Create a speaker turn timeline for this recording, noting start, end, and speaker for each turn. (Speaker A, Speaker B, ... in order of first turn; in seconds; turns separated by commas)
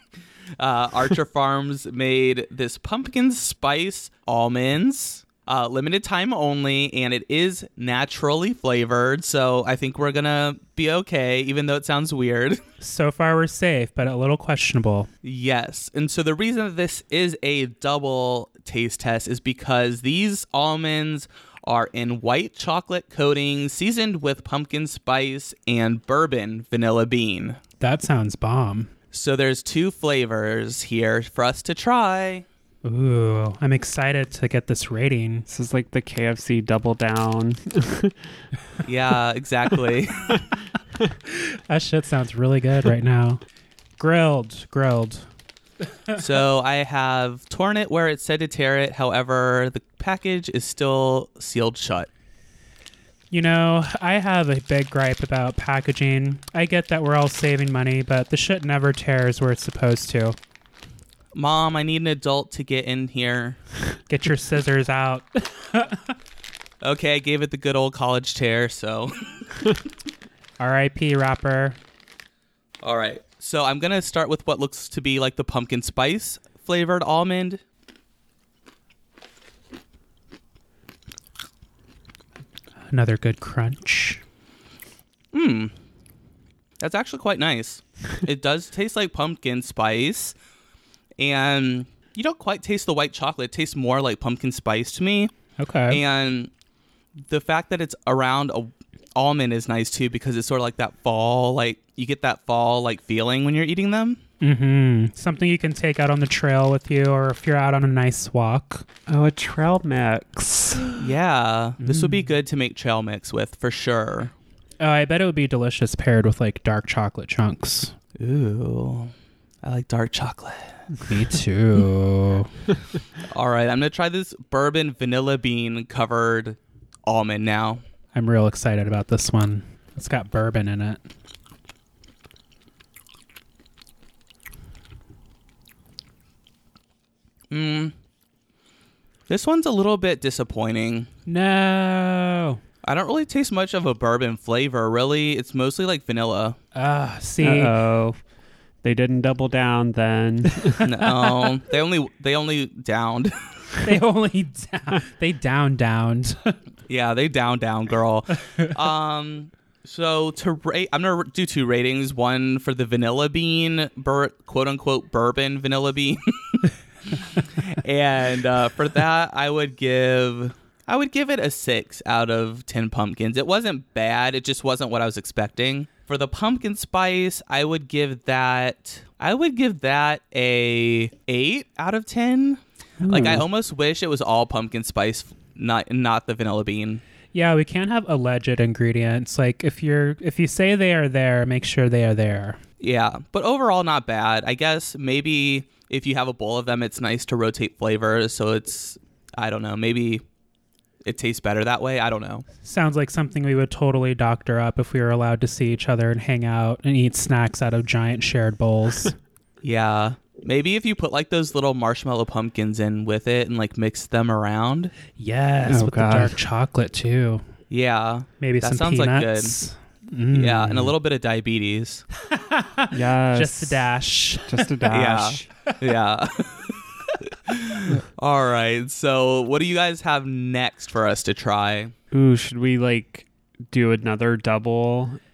Speaker A: 0.6-12.6, Speaker B: 12.8-15.1, Speaker A: 15.2-27.6, Speaker B: 27.8-28.9, Speaker A: 29.1-32.5, Speaker B: 32.8-35.5, Speaker C: 35.5-38.2, Speaker A: 38.8-40.5, Speaker B: 41.2-43.4, Speaker B: 44.0-45.3, Speaker A: 46.2-52.1, Speaker B: 53.3-60.4, Speaker A: 61.3-63.6, Speaker B: 64.1-66.1, Speaker A: 66.8-69.8, Speaker B: 70.6-71.8, Speaker A: 72.8-77.6, Speaker B: 82.9-84.2, Speaker A: 85.3-85.7, Speaker A: 86.8-90.3, Speaker A: 91.2-95.3, Speaker B: 95.6-96.0, Speaker A: 95.9-96.5, Speaker A: 97.2-104.2, Speaker B: 104.4-108.8, Speaker C: 109.1-111.0, Speaker A: 111.0-114.3, Speaker B: 111.8-112.3, Speaker B: 114.8-117.9, Speaker A: 118.2-119.1, Speaker A: 119.6-120.8, Speaker B: 121.0-122.5, Speaker A: 123.2-127.8, Speaker B: 128.1-131.0, Speaker A: 137.5-137.9, Speaker A: 139.3-141.1, Speaker B: 141.2-142.6, Speaker A: 142.8-146.6, Speaker B: 146.7-147.7, Speaker C: 147.4-148.2, Speaker C: 148.8-151.1, Speaker A: 150.8-153.8, Speaker B: 153.8-156.6, Speaker A: 156.9-187.0, Speaker C: 183.0-183.4, Speaker B: 187.3-192.6, Speaker A: 192.8-200.2, Speaker A: 201.0-202.4, Speaker B: 202.6-209.2, Speaker A: 209.6-214.9, Speaker B: 215.2-217.4, Speaker C: 215.7-216.4, Speaker A: 217.7-219.6, Speaker B: 218.4-220.9, Speaker A: 220.3-222.0, Speaker B: 222.3-224.8, Speaker C: 222.9-223.8, Speaker C: 224.4-225.5, Speaker A: 224.9-231.9, Speaker C: 232.1-235.2